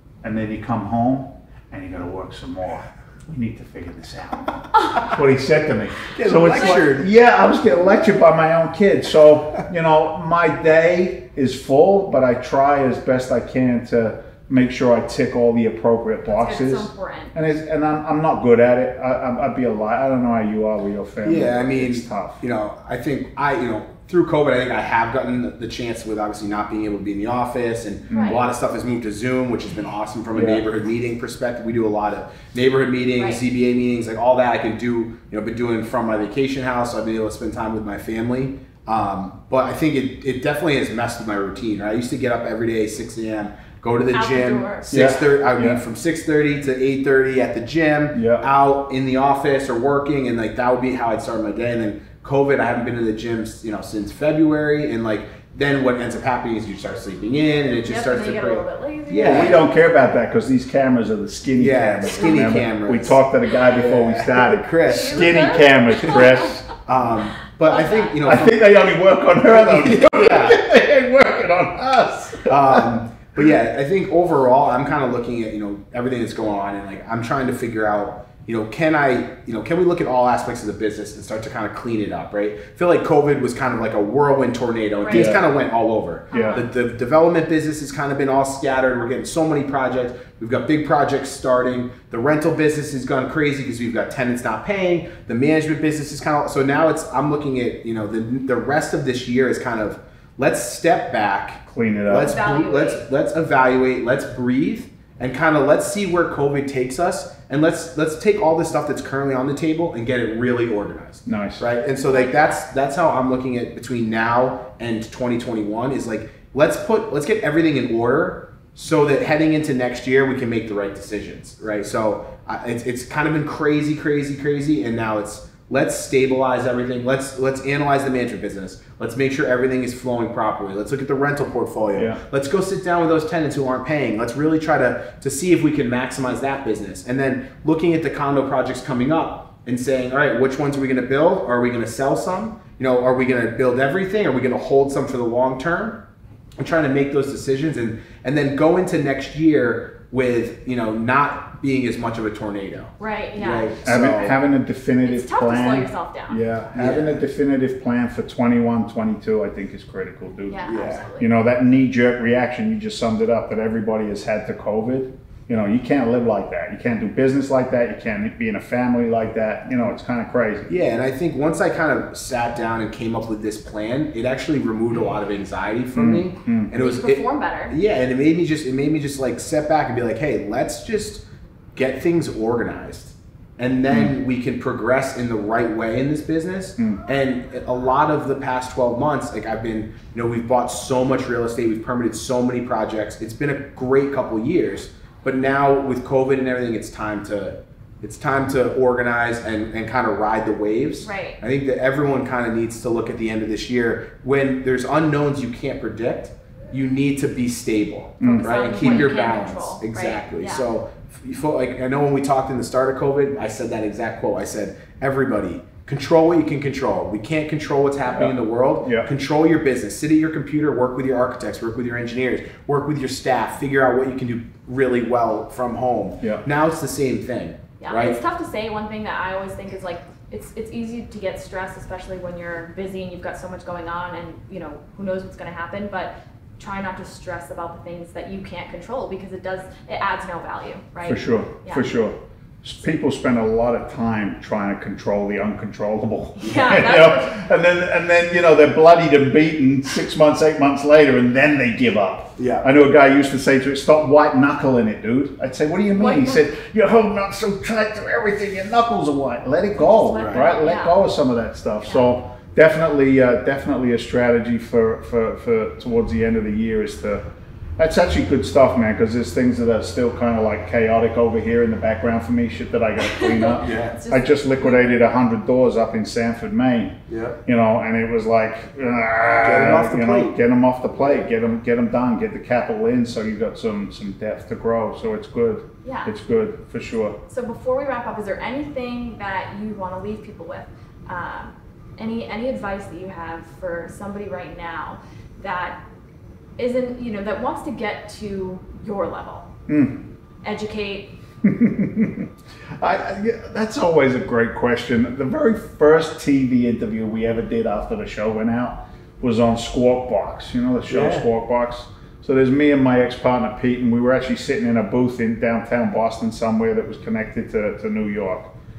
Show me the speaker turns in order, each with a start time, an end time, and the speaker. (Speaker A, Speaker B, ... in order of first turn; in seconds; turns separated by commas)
Speaker A: 0.2-22.4, Speaker B: 6.1-7.1, Speaker C: 16.2-17.3, Speaker B: 21.2-59.6, Speaker C: 28.1-28.4, Speaker A: 28.1-28.4, Speaker A: 30.3-30.6, Speaker C: 44.1-44.9, Speaker A: 44.9-45.8, Speaker A: 48.1-48.4, Speaker C: 57.8-59.6, Speaker A: 59.2-66.7, Speaker B: 61.6-66.2, Speaker C: 62.2-62.5, Speaker C: 64.9-66.5, Speaker B: 66.8-68.7, Speaker C: 67.7-68.1, Speaker A: 68.2-72.9, Speaker B: 69.5-70.6, Speaker B: 72.5-146.0, Speaker C: 85.0-85.3, Speaker A: 85.1-85.4, Speaker A: 86.3-86.6, Speaker C: 86.3-86.6, Speaker A: 101.7-102.4, Speaker C: 102.1-103.0, Speaker A: 111.2-111.6, Speaker C: 112.0-112.6, Speaker A: 131.9-132.2, Speaker B: 146.6-154.4, Speaker C: 153.0-153.7, Speaker A: 153.8-170.7, Speaker C: 155.0-156.4, Speaker B: 156.7-157.2, Speaker C: 160.5-161.3, Speaker B: 160.7-161.0, Speaker B: 170.7-181.2, Speaker A: 175.9-176.7, Speaker C: 176.7-177.8, Speaker B: 181.8-228.2, Speaker C: 201.0-201.4, Speaker A: 208.2-209.0, Speaker C: 208.2-210.7, Speaker A: 218.1-219.1, Speaker C: 227.8-241.9, Speaker A: 241.0-267.2, Speaker C: 246.4-247.3, Speaker B: 252.4-252.6, Speaker C: 255.9-256.4, Speaker C: 259.9-261.0, Speaker B: 260.0-260.5, Speaker A: 267.8-287.2, Speaker C: 273.0-274.9, Speaker B: 273.6-274.0, Speaker B: 277.1-277.4, Speaker B: 279.4-280.4, Speaker C: 285.8-286.1, Speaker C: 287.3-295.8, Speaker C: 296.6-299.5, Speaker A: 299.7-300.0, Speaker C: 300.4-301.1, Speaker A: 301.4-318.5, Speaker B: 310.9-311.2